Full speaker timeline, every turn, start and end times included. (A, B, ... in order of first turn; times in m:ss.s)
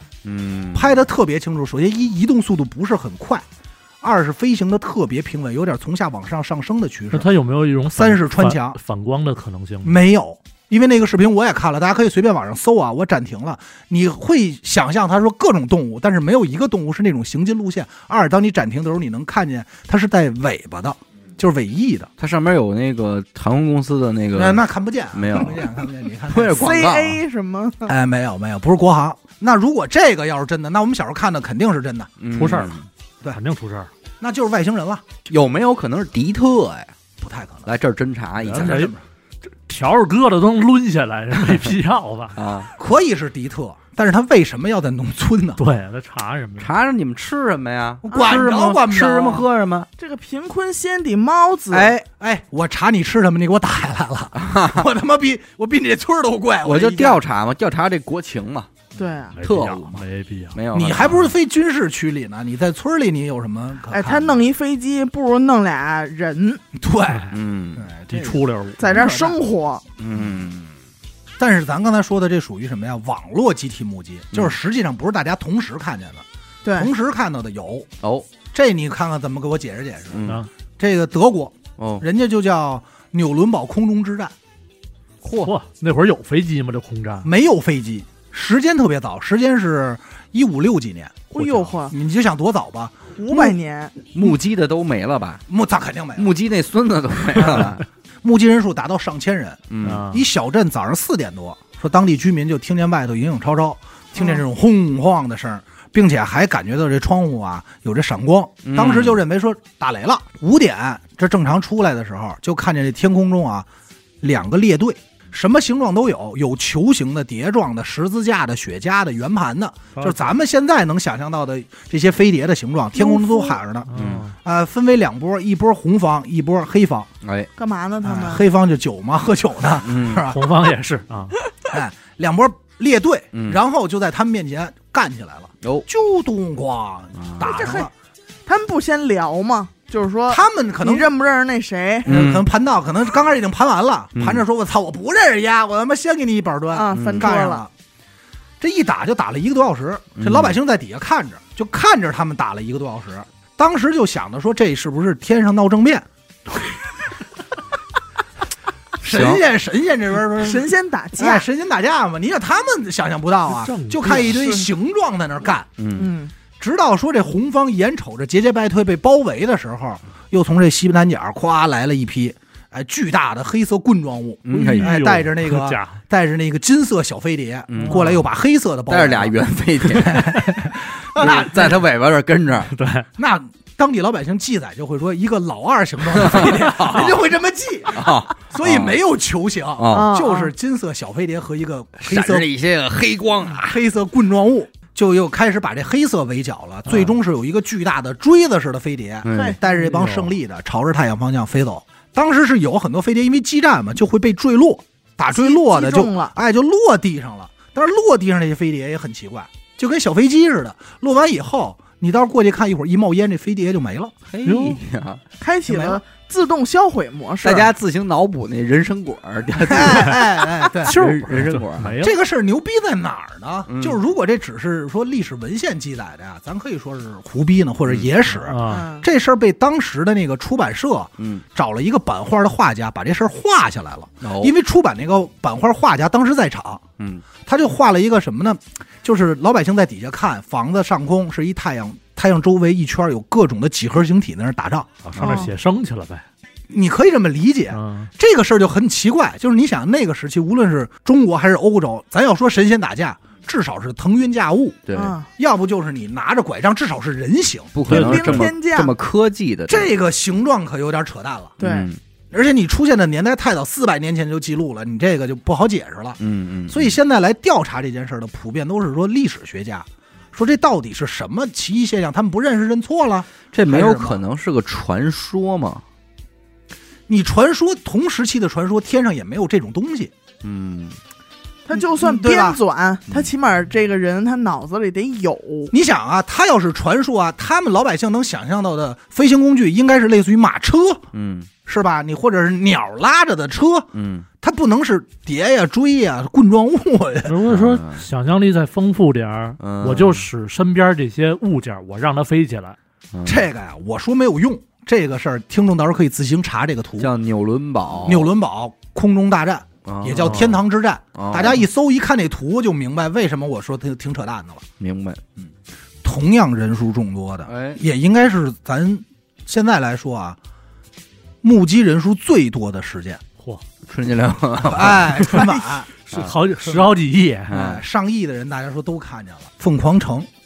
0:00.2-0:01.0 A
0:00.7-0:03.4 B
0:04.0-0:07.3 B
0:07.1-0:10.0 C
0:07.9-0:08.8 B
0:09.8-0:22.1 B
0:22.2-0:25.7 A
0:24.3-0:26.8 B
0:26.3-0:27.2 A
0:26.5-0:27.9 D
0:27.8-0:32.1 B
0:32.2-0:32.9 A
0:32.3-0:32.7 C
0:33.3-0:33.9 C
0:34.2-0:35.0 B
0:35.3-0:36.9 A
0:37.2-0:37.7 B
0:37.6-0:38.9 A
0:38.4-0:38.9 C
0:38.4-0:39.0 B
0:39.5-0:42.4 C
0:42.3-0:42.7 A
0:42.7-0:45.6 B
0:45.6-0:46.7 C
0:46.6-0:49.9 A
0:48.0-0:49.4 B
0:48.1-0:48.4 D
0:50.0-0:51.9 D
0:51.7-0:52.0 A
0:52.2-0:57.2 B
0:54.4-0:54.9 A
0:56.6-0:58.7 A
0:59.0-0:59.4 D
0:59.4-1:00.6 C
0:59.4-1:01.3 A
1:00.7-1:04.4 B
1:03.9-1:06.6 D
1:06.7-1:09.4 B
1:07.3-1:07.9 A
1:08.1-1:08.9 C
1:08.8-1:09.8 D
1:10.0-1:10.7 A
1:11.4-1:16.2 B
1:16.6-1:16.9 D
1:16.8-1:17.9 B
1:18.0-1:18.3 A
1:18.5-1:24.3 B
1:20.1-1:20.4 A
1:21.8-1:22.0 A
1:25.2-1:25.5 A
1:25.4-1:27.3 C
1:27.2-1:33.6 B
1:31.3-1:31.9 D
1:33.2-1:34.0 D
1:34.1-1:35.4 A
1:35.5-1:36.3 B
1:36.2-1:37.8 A
1:37.3-1:53.7 B
1:39.7-1:40.1 A
1:39.8-1:40.2 C
1:48.6-1:49.2 A
1:54.2-2:07.1 B
1:59.9-2:00.3 C
2:02.9-2:03.6 D
2:03.9-2:04.4 C
2:03.9-2:04.2 A
2:07.2-2:07.5 A
2:07.6-2:08.4 D
2:08.0-2:10.5 B
2:09.8-2:10.3 A
2:10.3-2:11.3 C
2:11.6-2:17.9 B
2:13.3-2:13.6 A
2:17.2-2:17.7 A
2:17.4-2:17.9 D
2:18.4-2:22.1 D
2:20.3-2:21.1 B
2:22.0-2:22.4 A
2:22.0-2:27.7 B
2:24.2-2:24.4 A
2:26.7-2:27.6 D
2:26.9-2:27.3 A
2:28.6-2:36.0 B
2:30.2-2:30.5 A
2:39.0-2:45.7 B
2:39.0-2:39.4 A
2:40.4-2:41.5 D
2:43.5-2:44.4 C
2:44.1-2:44.7 D
2:45.8-2:46.1 A
2:46.0-2:46.3 D
2:46.6-2:59.4 B
2:54.4-2:55.0 A
2:54.5-2:56.0 C
2:57.7-2:58.2 A
2:57.8-2:58.2 C
2:58.9-3:00.4 A
2:59.9-3:01.8 B
3:01.1-3:02.7 A
3:02.7-3:03.1 C
3:03.2-3:12.5 B
3:06.1-3:07.2 A
3:07.9-3:09.0 A
3:09.8-3:10.1 A
3:09.9-3:10.5 D
3:12.0-3:13.8 A
3:13.6-3:34.1 B
3:19.2-3:19.6 A
3:19.3-3:19.6 D
3:19.7-3:20.3 C
3:25.3-3:26.3 D
3:34.3-3:35.2 A
3:34.4-3:34.8 C
3:35.4-3:37.7 D
3:35.7-3:36.0 B
3:37.4-3:42.0 A
3:39.6-3:41.0 B
3:40.8-3:42.1 C
3:42.0-3:56.8 B
3:43.7-3:44.0 A
3:48.3-3:48.8 C
3:48.7-3:49.1 D
3:51.2-3:51.4 A
3:54.2-3:54.5 A
3:57.0-3:57.2 A
3:57.4-4:05.0 B
4:05.0-4:06.2 C
4:05.2-4:05.5 D
4:06.7-4:17.8 B
4:07.7-4:08.1 C
4:14.9-4:15.2 A
4:14.9-4:15.3 D
4:17.7-4:19.9 A
4:17.9-4:18.9 D
4:17.9-4:18.5 C
4:19.7-4:21.6 B
4:21.6-4:21.9 D
4:21.6-4:22.0 A
4:22.3-4:34.2 B
4:26.2-4:27.0 A
4:33.5-4:35.8 A
4:37.1-4:40.1 B
4:40.4-4:41.0 A
4:41.6-4:45.7 D
4:41.7-4:42.6 B
4:45.7-4:51.1 B
4:51.1-4:51.5 A
4:51.6-4:53.9 B
4:53.9-4:54.2 A
4:54.4-4:57.4 B
4:57.2-5:02.8 C
4:57.5-4:58.0 A
4:59.6-5:00.3 A
5:03.1-5:03.5 A
5:03.2-5:07.1 B
5:07.0-5:08.3 A
5:08.0-5:14.6 B
5:09.8-5:10.6 A
5:11.1-5:11.6 A
5:14.8-5:15.2 A
5:16.0-5:20.4 B
5:17.5-5:17.8 A
5:21.4-5:23.2 B
5:23.9-5:25.5 A
5:24.6-5:25.9 B
5:26.1-5:27.5 C
5:26.1-5:26.8 A
5:27.5-5:27.8 A
5:27.5-5:30.3 B